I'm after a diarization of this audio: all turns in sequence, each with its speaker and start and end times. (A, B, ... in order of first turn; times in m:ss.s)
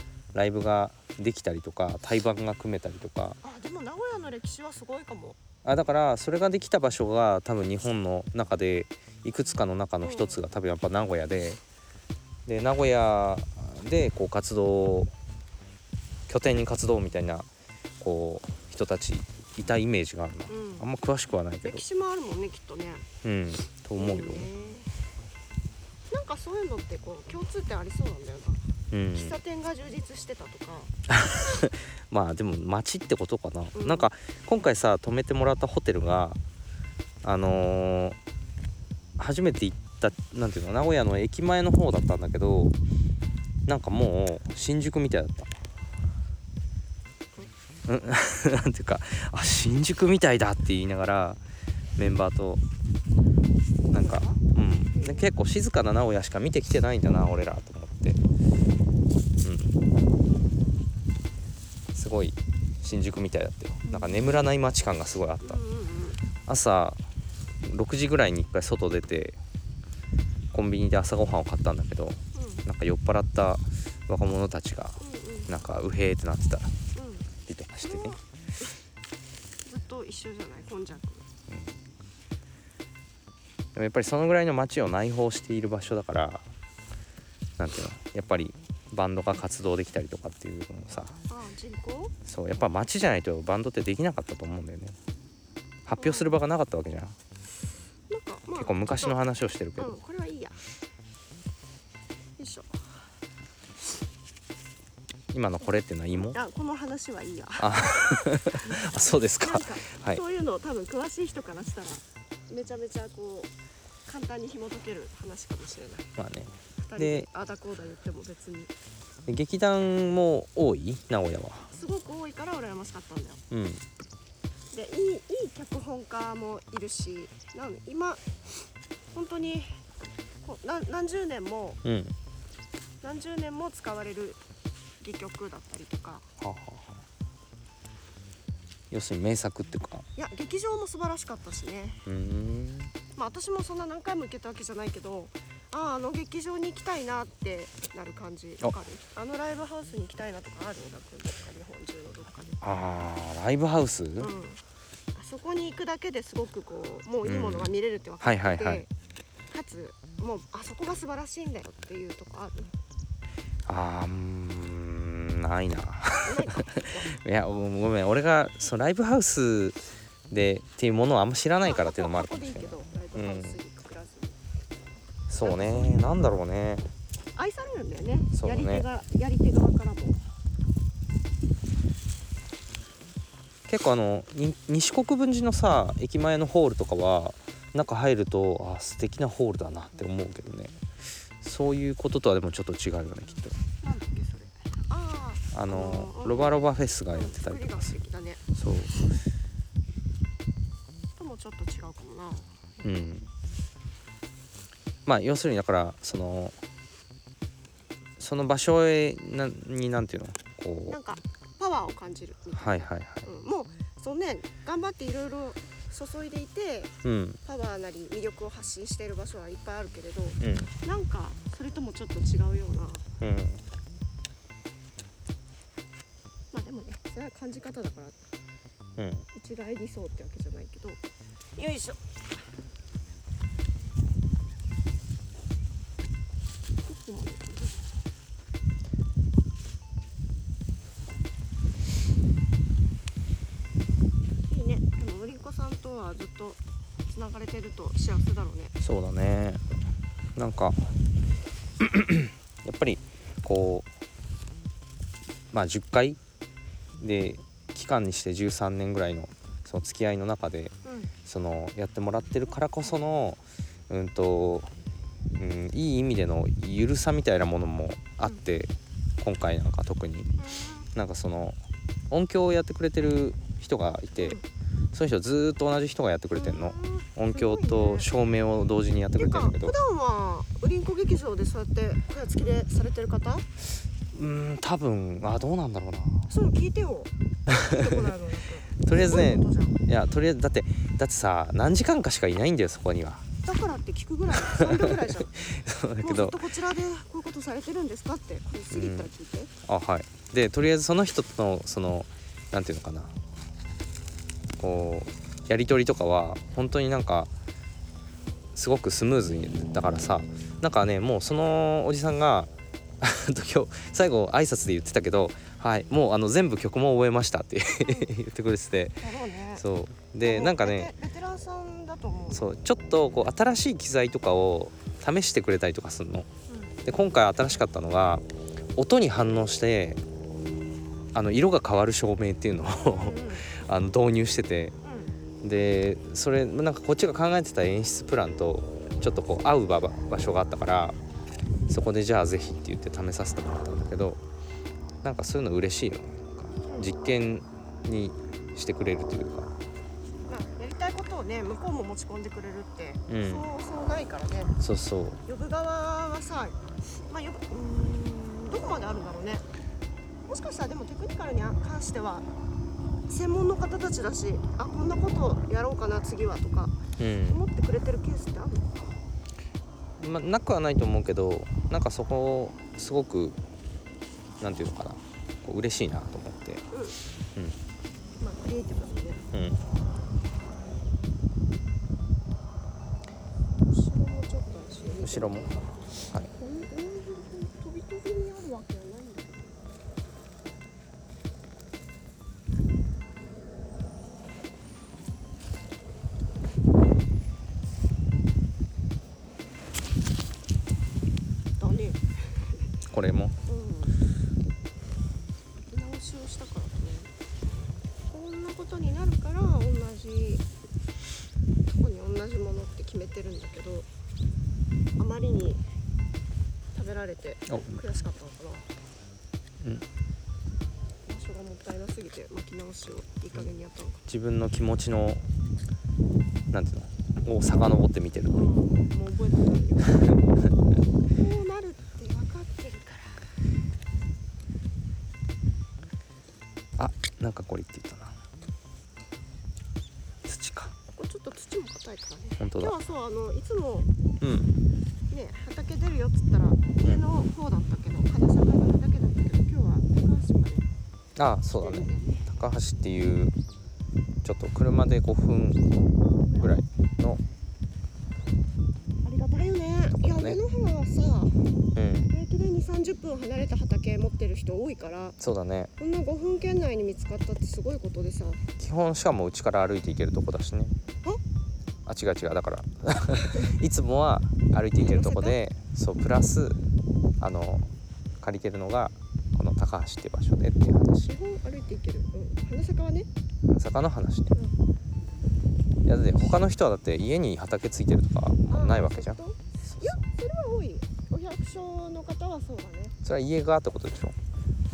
0:00.3-0:03.4 A
0:03.4-0:05.4 B
0:05.6-0:11.6 A
0:10.0-0:10.4 B
0:12.4-0:15.1 A
0:16.3-0:17.5 A
0:18.0-0:21.8 A
0:20.5-0:20.9 B
0:21.6-0:23.0 B
0:23.2-0:24.5 A
0:24.0-0:24.9 B
0:26.1-0:28.6 B
0:28.9-0:29.4 A
0:29.1-0:30.9 B
0:31.1-0:36.4 A
0:33.7-0:34.1 B
0:37.2-0:38.2 A
0:39.2-0:42.8 A
0:43.6-0:45.5 A
0:47.9-0:51.4 A
0:52.0-0:52.6 A
0:53.9-0:55.3 B
0:53.9-0:58.2 A
0:59.4-0:59.8 A
1:01.9-1:05.6 A
1:03.8-1:04.5 B
1:05.4-1:06.2 B
1:06.4-1:07.0 A
1:07.6-1:09.4 A
1:10.5-1:16.8 A
1:12.3-1:12.6 B
1:15.0-1:15.5 B
1:16.9-1:17.3 B
1:17.5-1:18.2 A
1:17.8-1:18.2 B
1:19.6-1:21.2 B
1:21.5-1:21.8 A
1:23.7-1:26.5 A
1:27.6-1:31.2 A
1:31.3-1:32.1 B
1:32.2-1:35.0 A
1:35.8-1:37.2 A
1:36.0-1:36.4 B
1:38.1-1:39.2 B
1:38.5-1:40.0 A
1:39.8-1:40.6 B
1:42.4-1:42.8 B
1:45.3-1:46.4 A
1:46.1-1:53.5 B
1:47.6-1:50.2 A
1:54.0-1:56.1 B
1:56.2-1:57.3 A
1:56.8-1:58.7 B
1:59.3-2:01.7 A
2:01.7-2:03.4 B
2:03.5-2:03.8 A
2:04.7-2:08.2 B
2:09.1-2:09.8 B
2:10.4-2:11.8 B
2:11.8-2:12.1 A
2:13.0-2:14.4 B
2:15.0-2:16.3 B
2:16.4-2:17.0 A
2:18.9-2:20.1 A
2:20.2-2:22.0 B
2:22.0-2:22.9 A
2:23.1-2:32.6 B
2:32.6-2:34.3 A
2:34.2-2:34.6 B
2:35.1-2:38.9 B
2:37.2-2:38.8 A
2:39.5-2:42.7 B
2:43.6-2:53.6 A
2:46.2-2:47.1 B
2:51.6-2:54.4 B
2:55.3-2:56.8 A
2:55.4-2:56.3 B
2:57.4-3:00.2 B
2:58.3-2:58.8 A
3:03.7-3:10.8 A
3:11.4-3:13.6 A
3:13.8-3:18.4 B
3:15.5-3:17.9 A
3:18.5-3:19.0 A
3:21.2-3:23.1 B
3:22.8-3:23.3 A
3:25.0-3:26.6 A
3:28.2-3:31.0 A
3:30.9-3:36.9 B
3:32.5-3:33.3 A
3:37.0-3:37.4 A
3:37.4-3:43.0 B
3:40.4-3:40.7 A
3:43.2-3:43.6 A
3:46.5-3:48.2 B
3:49.0-3:49.2 A
3:49.3-3:51.0 B
3:51.6-3:52.0 B
3:56.9-3:57.9 B
4:04.5-4:08.7 B
4:08.8-4:09.6 A
4:10.4-4:10.9 A
4:11.8-4:13.9 A
4:15.5-4:16.2 A
4:17.0-4:24.7 A
4:20.8-4:21.1 B
4:25.3-4:30.3 A
4:30.4-4:30.9 B
4:30.9-4:31.6 A
4:32.1-4:34.4 A
4:34.2-4:34.4 B
4:34.9-4:39.7 A
4:36.3-4:38.1 B
4:39.2-4:43.4 B
4:44.1-4:46.3 A
4:46.3-4:49.8 B
4:47.5-4:48.0 A
4:48.8-4:53.3 A
4:53.4-4:55.4 B
4:54.3-4:56.4 A
4:56.0-4:59.5 B
4:58.7-4:59.1 A
4:59.6-5:03.2 A
5:04.6-5:07.3 A
5:08.5-5:19.0 A
5:17.8-5:18.1 B
5:19.0-5:19.6 B
5:19.6-5:20.9 A
5:20.2-5:22.4 B
5:22.3-5:26.3 A
5:26.5-5:26.8 B
5:26.8-5:28.2 A
5:28.8-5:30.0 A
5:31.1-5:34.7 A
5:32.8-5:33.5 B
5:34.8-5:35.1 B
5:35.4-5:41.0 A
5:41.7-5:44.2 A
5:45.0-5:49.5 A
5:46.7-5:47.0 B
5:50.3-5:54.5 B
5:53.1-5:53.4 A
5:54.6-5:55.2 A
5:55.2-5:59.4 B
6:00.3-6:02.3 B
6:03.1-6:08.8 B
6:07.0-6:07.4 A
6:10.0-6:13.4 A
6:14.4-6:16.6 A
6:16.7-6:17.0 B
6:18.2-6:19.2 B
6:19.3-6:19.6 A
6:23.6-6:29.5 B
6:25.0-6:25.5 A
6:41.6-6:42.6 B
6:42.9-6:43.3 A
6:43.5-6:44.0 B
6:45.7-6:47.1 B
6:48.1-6:50.4 B
6:51.7-6:53.9 B
6:55.0-6:55.6 B
6:56.7-6:58.7 B
6:57.5-6:57.8 A
6:59.6-6:59.8 A
7:01.1-7:04.0 B
7:04.1-7:05.3 A
7:06.5-7:08.5 A
7:08.3-7:10.3 B
7:11.1-7:13.2 B
7:16.8-7:18.2 A
7:20.2-7:20.7 A
7:20.9-7:23.9 B
7:22.4-7:22.8 A
7:24.2-7:24.5 A
7:25.1-7:30.6 B
7:31.2-7:33.3 A
7:31.6-7:32.3 B
7:34.2-7:35.6 A
7:36.2-7:36.6 B
7:36.4-7:37.2 A
7:39.0-7:41.3 B
7:39.9-7:40.4 A
7:41.8-7:42.1 A
7:42.1-7:45.2 B
7:45.2-7:45.7 A
7:45.8-7:48.4 B
7:48.6-7:50.7 A
7:51.8-7:56.6 A
7:54.8-7:55.4 B
7:57.2-8:01.1 A
8:01.0-8:03.1 B
8:03.5-8:04.3 A
8:05.8-8:10.0 A
8:06.1-8:06.4 B
8:08.5-8:13.0 B
8:13.0-8:14.2 A